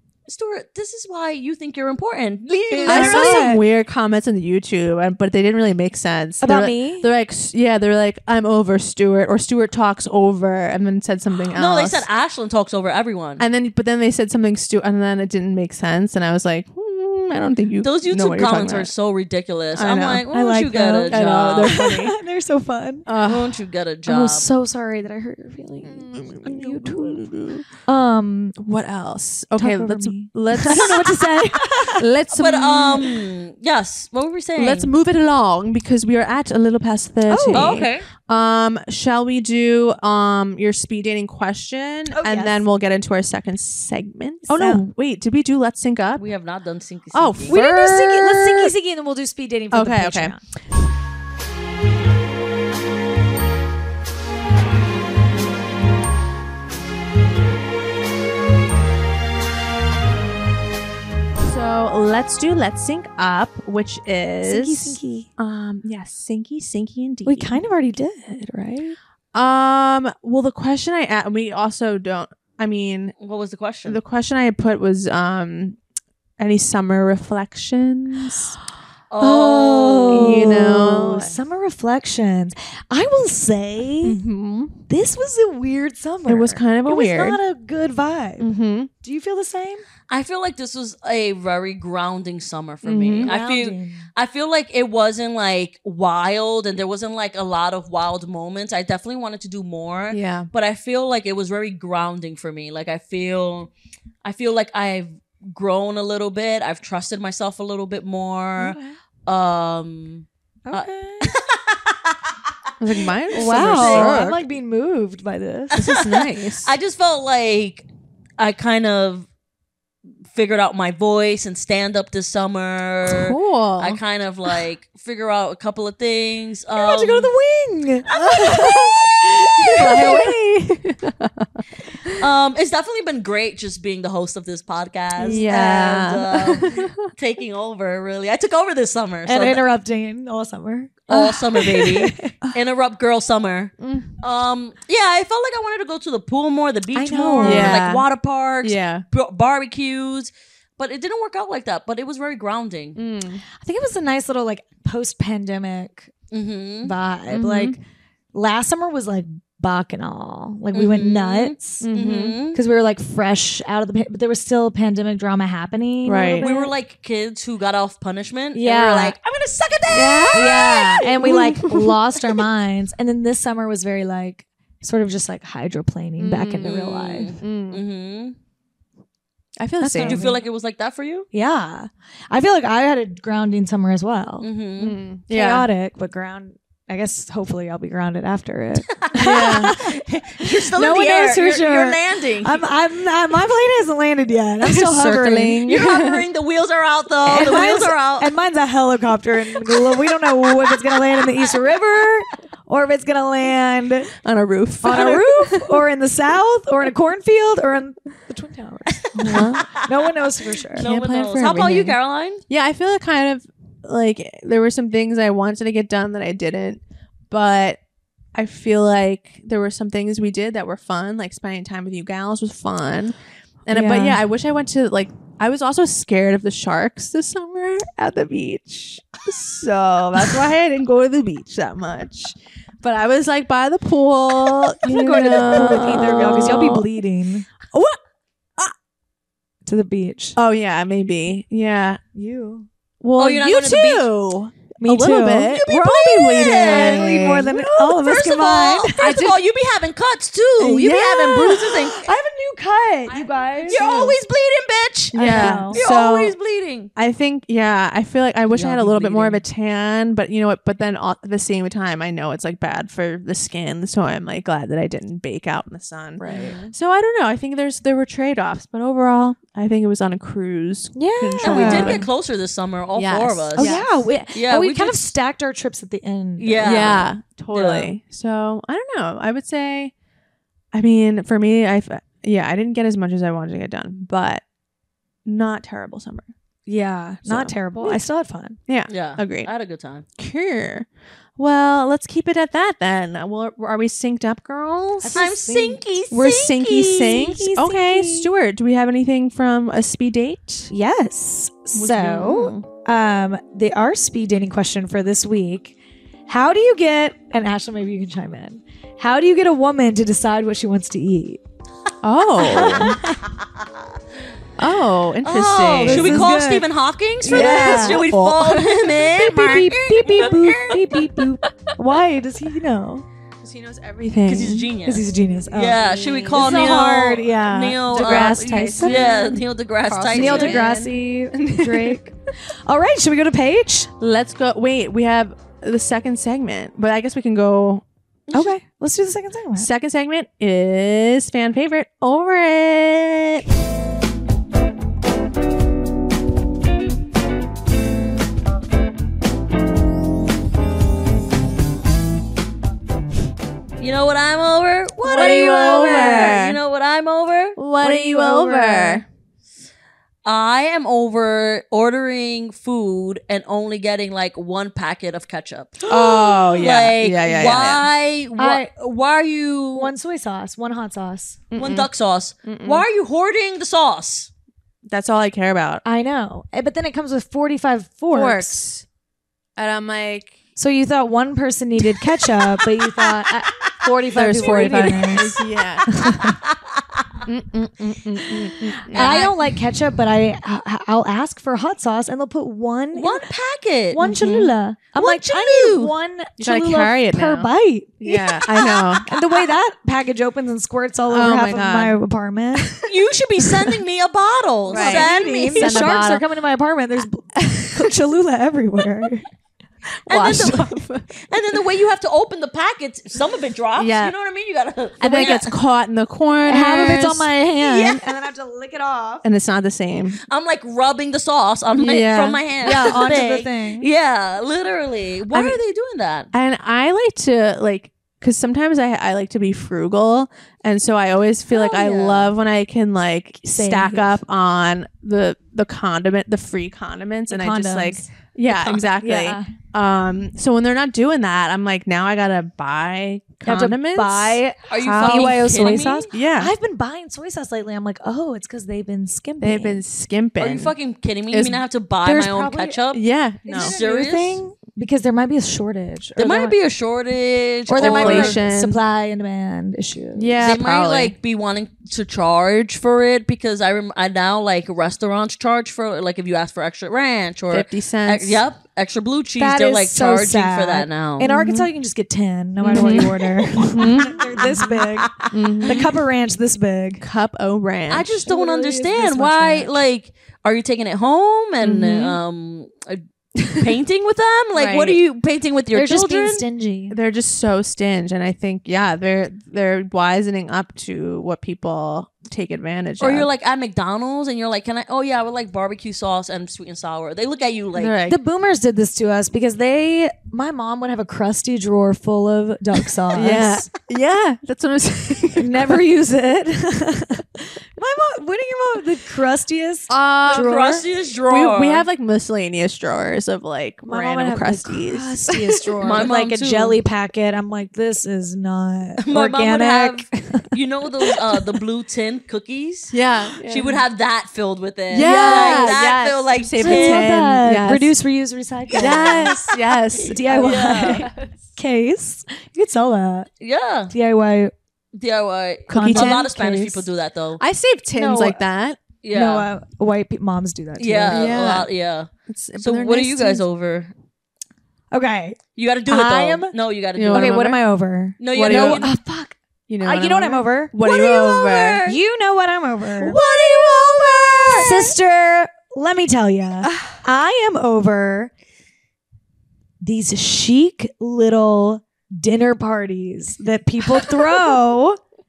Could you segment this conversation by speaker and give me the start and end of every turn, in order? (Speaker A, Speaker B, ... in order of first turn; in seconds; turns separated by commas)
Speaker A: 0.3-3.5, Speaker B: 2.7-3.6, Speaker C: 2.9-12.1, Speaker B: 6.4-7.1, Speaker A: 11.5-13.5, Speaker C: 13.4-18.9, Speaker A: 17.8-21.9, Speaker C: 19.8-20.2, Speaker B: 20.3-23.1, Speaker C: 21.1-22.2, Speaker C: 23.1-23.6, Speaker A: 23.2-24.5, Speaker B: 24.1-27.2, Speaker C: 25.9-27.6, Speaker B: 27.9-28.6, Speaker C: 28.6-33.2, Speaker B: 29.6-32.0, Speaker A: 32.3-34.9, Speaker C: 34.6-46.3, Speaker B: 37.3-37.8, Speaker A: 37.5-38.1, Speaker B: 42.1-42.6, Speaker B: 44.5-44.8, Speaker A: 46.2-47.6, Speaker C: 47.1-48.7, Speaker B: 47.5-50.4, Speaker C: 49.7-50.4, Speaker C: 61.4-67.6, Speaker B: 64.4-65.3, Speaker B: 67.2-69.0, Speaker C: 69.3-73.2, Speaker A: 73.2-74.0, Speaker C: 73.8-75.8, Speaker C: 76.4-78.5, Speaker A: 79.1-80.8, Speaker B: 79.2-84.2, Speaker C: 80.1-81.4, Speaker C: 84.0-84.8, Speaker B: 84.9-89.8, Speaker C: 86.3-87.4, Speaker C: 88.4-88.9, Speaker A: 90.1-103.7, Speaker C: 92.8-93.3, Speaker B: 93.2-94.1, Speaker C: 100.1-100.5, Speaker A: 104.2-112.3, Speaker C: 108.6-108.9, Speaker B: 110.7-111.3, Speaker C: 112.8-114.4, Speaker A: 113.3-114.3, Speaker B: 113.3-115.8, Speaker C: 115.7-116.7, Speaker A: 115.7-117.9, Speaker A: 118.4-119.3, Speaker A: 120.3-127.3, Speaker C: 123.0-124.0, Speaker B: 126.8-130.4, Speaker C: 128.1-129.0, Speaker C: 129.6-131.5, Speaker A: 132.2-139.6, Speaker B: 135.2-135.9, Speaker C: 135.2-137.0, Speaker B: 139.3-142.4, Speaker A: 141.1-153.0, Speaker C: 143.8-144.1, Speaker B: 146.9-147.9, Speaker C: 147.4-148.1, Speaker C: 148.6-149.1, Speaker C: 153.0-153.4, Speaker B: 153.6-156.1, Speaker A: 156.3-156.9, Speaker B: 156.8-157.8, Speaker C: 157.3-157.7, Speaker B: 158.3-161.9, Speaker A: 160.7-162.6, Speaker C: 161.8-162.4, Speaker B: 162.5-166.7, Speaker C: 166.1-166.5, Speaker A: 166.3-170.9, Speaker B: 168.5-169.2, Speaker B: 169.9-177.4, Speaker C: 169.9-172.0, Speaker C: 176.2-177.8, Speaker A: 176.6-178.4, Speaker C: 179.6-180.3, Speaker B: 179.8-180.4, Speaker A: 179.9-181.3, Speaker B: 181.3-184.5, Speaker A: 184.4-185.0, Speaker C: 184.8-185.7, Speaker B: 185.2-195.8, Speaker A: 188.9-192.6, Speaker C: 189.2-189.8, Speaker C: 194.6-196.3, Speaker A: 195.6-198.3, Speaker B: 197.3-204.1, Speaker C: 204.2-205.8, Speaker B: 204.8-210.9, Speaker A: 204.9-205.3, Speaker A: 208.9-209.8, Speaker C: 209.2-209.6, Speaker A: 210.7-212.4, Speaker C: 210.8-212.0, Speaker C: 212.5-217.8, Speaker C: 218.3-236.9, Speaker B: 223.7-224.2, Speaker B: 234.8-237.5, Speaker A: 235.3-236.3, Speaker C: 237.7-238.0, Speaker B: 239.7-240.4, Speaker C: 240.3-242.0, Speaker B: 242.1-242.7, Speaker C: 243.0-248.1, Speaker A: 243.2-244.1, Speaker B: 244.8-245.7, Speaker A: 245.3-247.1, Speaker B: 246.6-249.2, Speaker A: 247.9-252.1, Speaker C: 249.0-249.3, Speaker C: 250.6-251.9, Speaker B: 251.9-254.1, Speaker C: 253.1-254.2, Speaker A: 253.6-256.9, Speaker B: 255.1-255.8, Speaker C: 255.1-256.4, Speaker C: 257.0-272.1, Speaker A: 258.5-259.4, Speaker B: 266.2-266.7, Speaker A: 266.2-266.7, Speaker B: 270.9-272.1, Speaker A: 271.4-275.1, Speaker C: 272.9-274.1, Speaker B: 273.5-277.1, Speaker A: 276.4-277.9, Speaker C: 276.6-279.9, Speaker C: 280.7-284.4, Speaker C: 285.2-286.3, Speaker B: 286.7-288.6, Speaker C: 287.3-288.1, Speaker C: 288.7-289.5, Speaker A: 288.9-290.1, Speaker C: 290.2-295.3, Speaker B: 295.0-296.4, Speaker A: 295.1-297.2, Speaker C: 296.2-300.7, Speaker B: 297.1-298.3, Speaker B: 300.7-305.8, Speaker C: 301.7-302.7, Speaker B: 306.3-311.4, Speaker C: 312.0-313.0, Speaker B: 312.4-313.2, Speaker A: 312.5-313.0, Speaker C: 314.6-316.3, Speaker A: 315.2-320.8, Speaker B: 315.8-316.7, Speaker B: 317.2-318.1, Speaker C: 317.3-319.0, Speaker B: 319.1-323.1, Speaker C: 323.4-324.7, Speaker A: 324.2-330.7, Speaker B: 324.8-329.3, Speaker C: 325.9-327.3, Speaker C: 327.9-332.0, Speaker B: 330.1-332.1, Speaker B: 332.6-333.9, Speaker C: 334.0-338.5, Speaker B: 338.3-339.7, Speaker C: 339.6-343.5, Speaker A: 353.8-357.6, Speaker C: 355.0-356.6, Speaker B: 355.8-356.3, Speaker C: 357.6-359.0, Speaker B: 357.8-359.0, Speaker A: 360.2-365.9, Speaker B: 365.8-366.5, Speaker C: 365.9-367.9, Speaker A: 366.4-369.9, Speaker B: 368.4-368.7, Speaker B: 369.8-371.4, Speaker C: 371.5-371.9, Speaker A: 371.6-374.3, Speaker C: 372.4-372.9, Speaker C: 374.9-375.8, Speaker B: 375.9-378.6, Speaker C: 378.1-378.8, Speaker C: 379.6-380.4, Speaker B: 380.6-386.4, Speaker C: 383.8-386.2, Speaker A: 384.4-384.7, Speaker A: 385.9-387.2, Speaker C: 387.3-389.3, Speaker B: 388.9-393.2, Speaker A: 388.9-389.3, Speaker A: 392.9-394.1, Speaker B: 393.9-402.9, Speaker C: 394.0-394.5, Speaker A: 394.9-395.9, Speaker C: 396.4-397.5, Speaker C: 398.0-399.4, Speaker C: 401.1-402.0, Speaker A: 402.9-406.2, Speaker C: 404.7-406.2, Speaker B: 404.7-409.3, Speaker A: 410.1-410.8, Speaker C: 410.1-411.2, Speaker A: 411.3-415.5, Speaker C: 413.8-414.1, Speaker C: 415.0-417.3, Speaker B: 416.4-419.2, Speaker A: 417.6-418.2, Speaker C: 419.2-420.2, Speaker A: 420.3-426.3, Speaker C: 421.8-423.0, Speaker B: 422.6-423.9, Speaker C: 425.3-425.6, Speaker C: 426.3-446.5, Speaker A: 431.5-432.4, Speaker B: 433.4-434.2, Speaker B: 437.3-438.1, Speaker A: 438.5-438.8, Speaker B: 439.0-439.6, Speaker B: 443.4-449.8, Speaker A: 444.7-446.1, Speaker C: 449.4-450.8, Speaker A: 450.4-453.0, Speaker C: 451.3-451.6, Speaker B: 452.0-452.8, Speaker C: 452.9-453.8, Speaker B: 453.5-456.5, Speaker A: 453.5-454.4, Speaker A: 456.2-458.4, Speaker B: 457.7-460.6, Speaker C: 457.8-458.8, Speaker C: 460.2-461.1, Speaker A: 460.4-471.3, Speaker C: 467.5-468.4, Speaker B: 469.4-477.0, Speaker C: 471.2-471.7, Speaker C: 472.6-474.6, Speaker A: 472.7-473.8, Speaker A: 474.3-475.8, Speaker C: 475.3-476.0, Speaker C: 477.0-478.2, Speaker A: 477.9-486.4, Speaker B: 478.2-479.7, Speaker C: 481.6-482.2, Speaker C: 483.4-483.7, Speaker C: 484.6-485.0, Speaker B: 485.7-487.0, Speaker C: 486.9-493.3, Speaker A: 493.0-497.9, Speaker C: 497.8-498.2, Speaker B: 498.1-503.7, Speaker C: 503.1-505.8, Speaker B: 505.4-510.9, Speaker C: 509.9-516.1, Speaker A: 510.3-511.9, Speaker B: 513.9-521.2, Speaker A: 515.8-516.8, Speaker A: 519.0-527.1, Speaker C: 522.9-523.8, Speaker C: 524.9-528.0, Speaker B: 525.0-525.8, Speaker B: 526.6-533.3, Speaker A: 528.7-529.1, Speaker C: 528.8-531.3, Speaker A: 530.4-531.1, Speaker A: 533.4-533.9, Speaker B: 533.9-534.5, Speaker A: 534.9-537.4, Speaker B: 535.7-536.7, Speaker C: 535.7-536.8, Speaker C: 537.4-538.8, Speaker B: 537.9-538.4, Speaker A: 539.0-539.5, Speaker B: 539.1-541.2, Speaker A: 540.8-543.9, Speaker C: 541.1-541.7, Speaker C: 542.3-543.5, Speaker B: 544.9-546.5, Speaker A: 545.6-547.4, Speaker C: 547.0-547.6, Speaker B: 547.1-550.8, Speaker A: 548.2-548.9, Speaker C: 548.3-548.9, Speaker C: 549.7-551.8, Speaker A: 550.8-552.0, Speaker B: 551.8-553.2, Speaker C: 553.0-554.9, Speaker A: 553.0-554.9, Speaker B: 554.5-558.3, Speaker B: 559.8-565.0